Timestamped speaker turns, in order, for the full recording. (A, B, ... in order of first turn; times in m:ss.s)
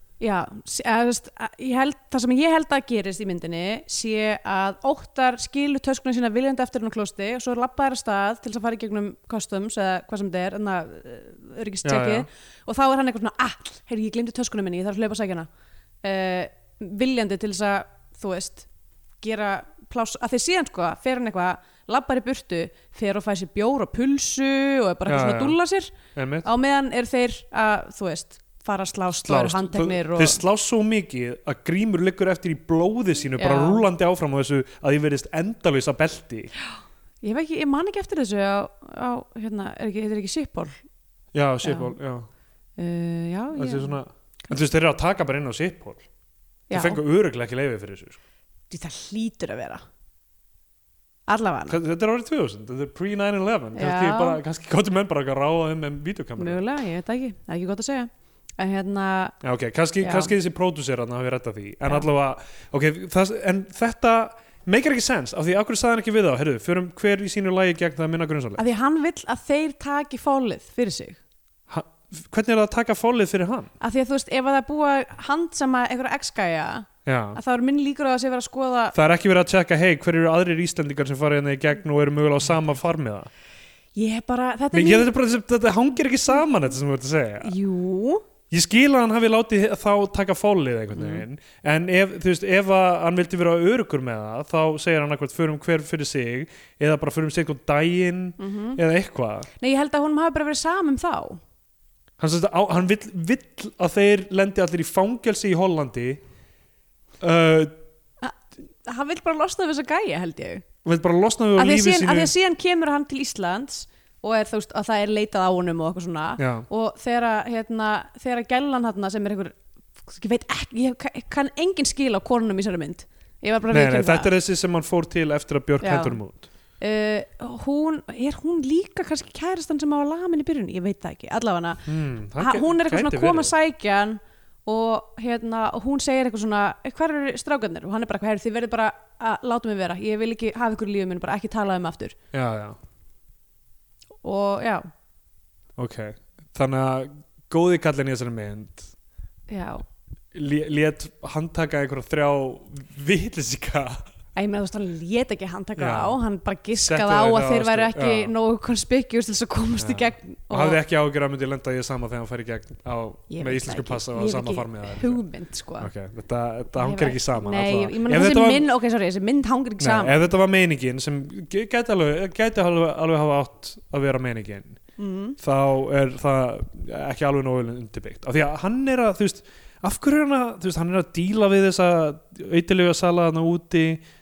0:00.2-0:15.5 A
0:11.8-0:12.3 B
0:16.0-0:18.6 A
0:19.2-0:30.4 A
0:25.1-0:25.6 B
0:26.1-0:26.5 B
0:29.2-0:36.5 B
0:33.4-0:33.8 A
0:36.6-0:40.8 A
0:41.3-0:42.3 B
0:41.6-0:41.9 A
0:42.8-0:44.0 A
0:43.5-0:46.0 B
0:46.7-0:47.0 A
0:46.7-0:48.2 B
0:48.7-0:49.8 A
0:51.3-0:51.8 A
0:51.7-0:56.6 B
0:53.7-0:54.4 A
0:56.4-0:59.4 A
0:59.4-1:08.6 B
1:00.0-1:00.3 A
1:08.6-1:11.2 A
1:11.7-1:13.7 B
1:13.8-1:18.9 A
1:17.0-1:17.4 B
1:18.9-1:23.3 B
1:24.0-1:25.1 A
1:24.7-1:27.5 B
1:27.4-1:28.2 A
1:28.5-1:39.5 B
1:30.9-1:31.2 A
1:38.4-1:38.8 A
1:39.6-1:41.4 A
1:42.2-1:46.2 B
1:47.2-1:47.8 B
1:48.2-1:50.6 A
1:50.8-1:52.3 B
1:51.6-2:04.3 A
1:56.4-1:56.6 B
2:03.7-2:06.4 B
2:05.8-2:06.2 A
2:06.8-2:11.8 A
2:11.8-2:13.5 B
2:12.4-2:22.2 A
2:22.3-2:22.8 B
2:24.2-2:24.9 A
2:25.8-2:28.9 B
2:29.5-2:29.8 A
2:30.3-2:34.0 B
2:34.4-2:40.8 A
2:35.8-2:36.2 B
2:36.8-2:38.3 B
2:39.8-2:45.2 B
2:43.3-2:45.9 A
2:45.8-2:48.7 B
2:46.8-2:50.2 A
2:49.8-2:54.8 B
2:55.0-2:55.4 A
2:55.4-3:04.0 B